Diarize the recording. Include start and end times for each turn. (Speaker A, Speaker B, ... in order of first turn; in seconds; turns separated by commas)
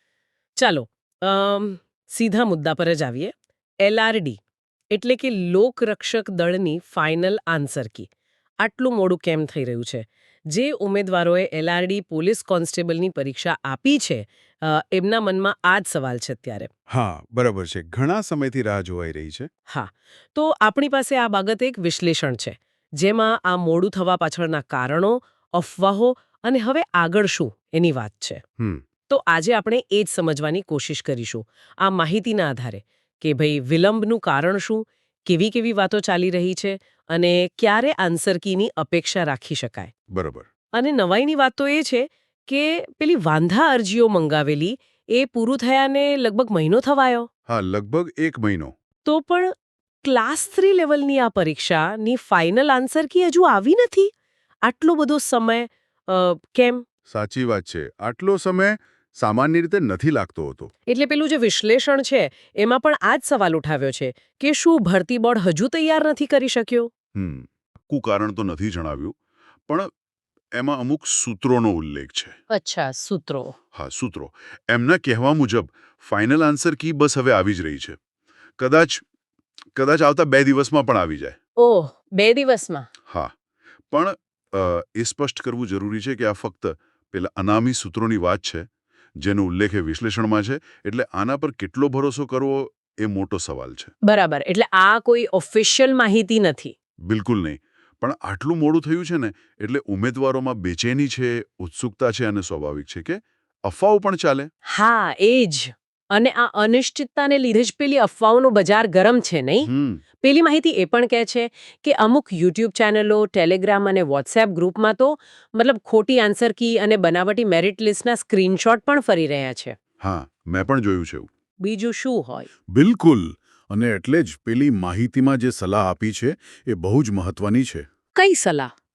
Speaker A: 0.6-3.3, Speaker A: 3.8-4.4, Speaker A: 4.9-8.1, Speaker A: 8.6-16.7, Speaker B: 16.9-19.5, Speaker A: 19.7-28.4, Speaker B: 28.6-28.8, Speaker A: 29.1-39.9, Speaker B: 40.1-40.5, Speaker A: 40.7-47.3, Speaker B: 47.5-48.7, Speaker A: 49.0-49.5, Speaker A: 50.0-54.1, Speaker A: 54.6-56.8, Speaker B: 57.1-60.7, Speaker A: 60.9-66.9, Speaker B: 67.1-69.2, Speaker B: 70.5-72.4, Speaker A: 72.5-73.5, Speaker B: 73.7-78.0, Speaker B: 78.6-79.0, Speaker B: 79.7-81.3, Speaker A: 81.6-82.9, Speaker B: 83.1-83.3, Speaker B: 83.9-93.9, Speaker A: 94.0-96.7, Speaker B: 97.0-104.5, Speaker A: 104.7-109.7, Speaker B: 109.6-110.0, Speaker A: 110.2-119.7, Speaker B: 120.0-121.3, Speaker A: 121.6-122.5, Speaker B: 122.7-127.8, Speaker A: 128.1-128.7